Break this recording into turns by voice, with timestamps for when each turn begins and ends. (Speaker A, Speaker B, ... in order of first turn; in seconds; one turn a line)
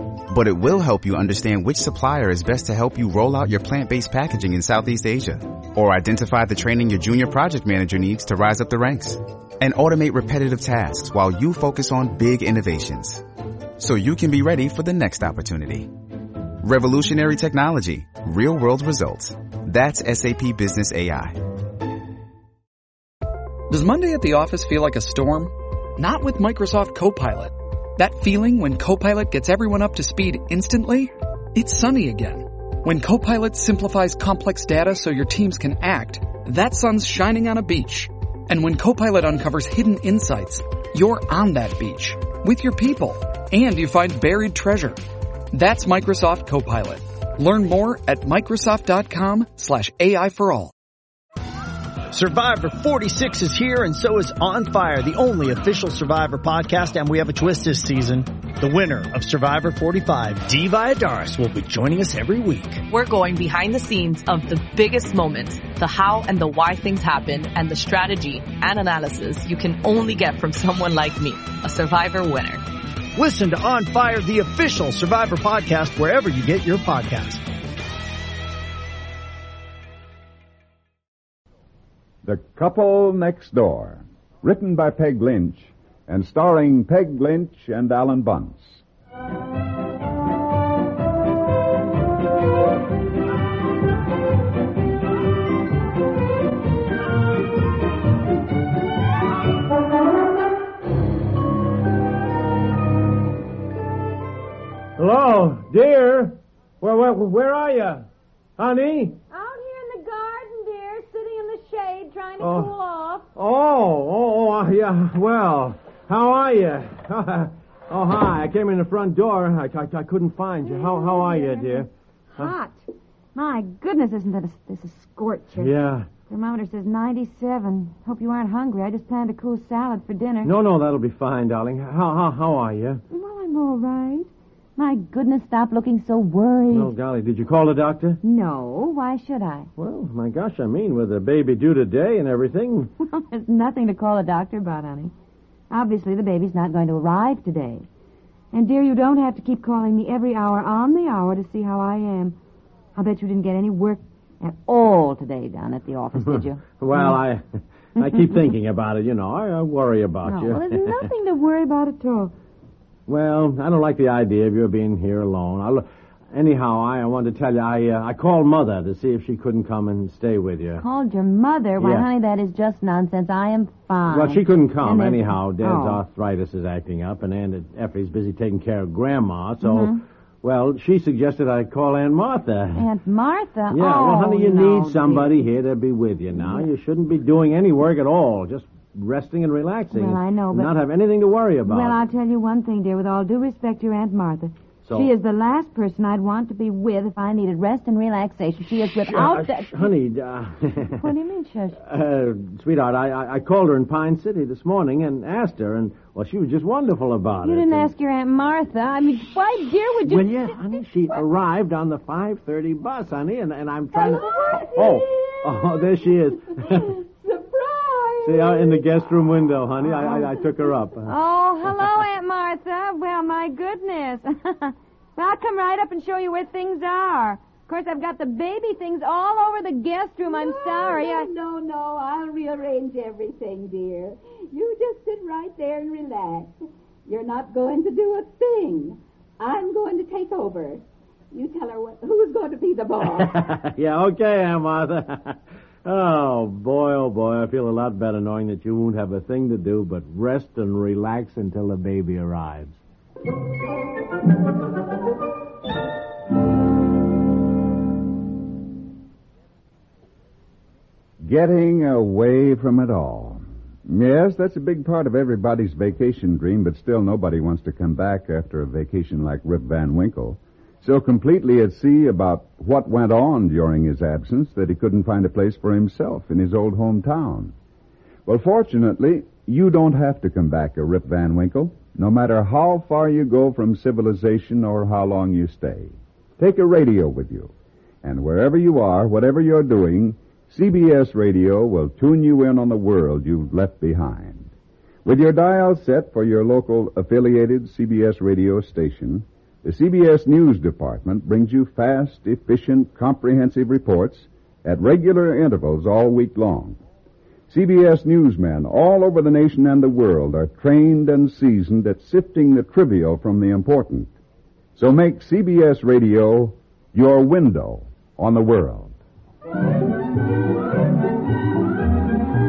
Speaker A: 0.3-13.2
Speaker A: 13.8-15.9
Speaker A: 16.6-21.4
Speaker B: 23.7-45.0
Speaker B: 45.5-50.7
Speaker C: 52.1-62.8
Speaker D: 62.9-72.6
Speaker C: 73.2-77.4
Speaker E: 82.2-88.8
Speaker F: 105.0-108.0
Speaker F: 108.6-109.2
Speaker G: 109.3-113.3
Speaker F: 112.4-112.7
Speaker F: 113.3-122.5
Speaker G: 120.7-125.7
Speaker F: 125.6-126.1
Speaker G: 126.3-130.5
Speaker F: 130.4-133.0
Speaker G: 133.1-136.9
Speaker F: 136.7-138.2
Speaker G: 138.2-139.7
Speaker F: 139.8-142.9
Speaker G: 143.0-145.1
Speaker G: 145.7-147.8
Speaker G: 148.5-152.3
Speaker G: 152.9-157.2
Speaker F: 156.3-157.4
Speaker F: 158.0-160.9
Speaker G: 160.2-162.3
Speaker F: 163.1-170.8
Speaker G: 170.8-176.0
Speaker F: 171.8-172.1
Speaker F: 174.1-182.8
Speaker G: 179.6-180.0
Speaker G: 182.8-185.4
Speaker F: 183.7-192.0
Speaker G: 189.9-190.7
Speaker G: 191.7-199.9
Speaker F: 194.8-195.1
Speaker F: 198.9-201.0
Speaker G: 200.9-201.8
Speaker F: 201.8-207.9
Speaker G: 207.4-210.3
Speaker F: 210.0-217.0
Speaker G: 214.0-214.8
Speaker H: 214.2-215.0
Speaker H: 217.2-218.2
Speaker F: 218.2-221.1
Speaker G: 221.1-231.3
Speaker H: 230.2-236.5
Speaker H: 237.1-243.5
Speaker F: 243.2-252.8
Speaker E: 261.2-277.5
Speaker E: 278.2-287.5
Speaker E: 288.0-294.5
Speaker E: 295.1-306.8
Speaker E: 307.5-314.1
Speaker E: 314.8-318.9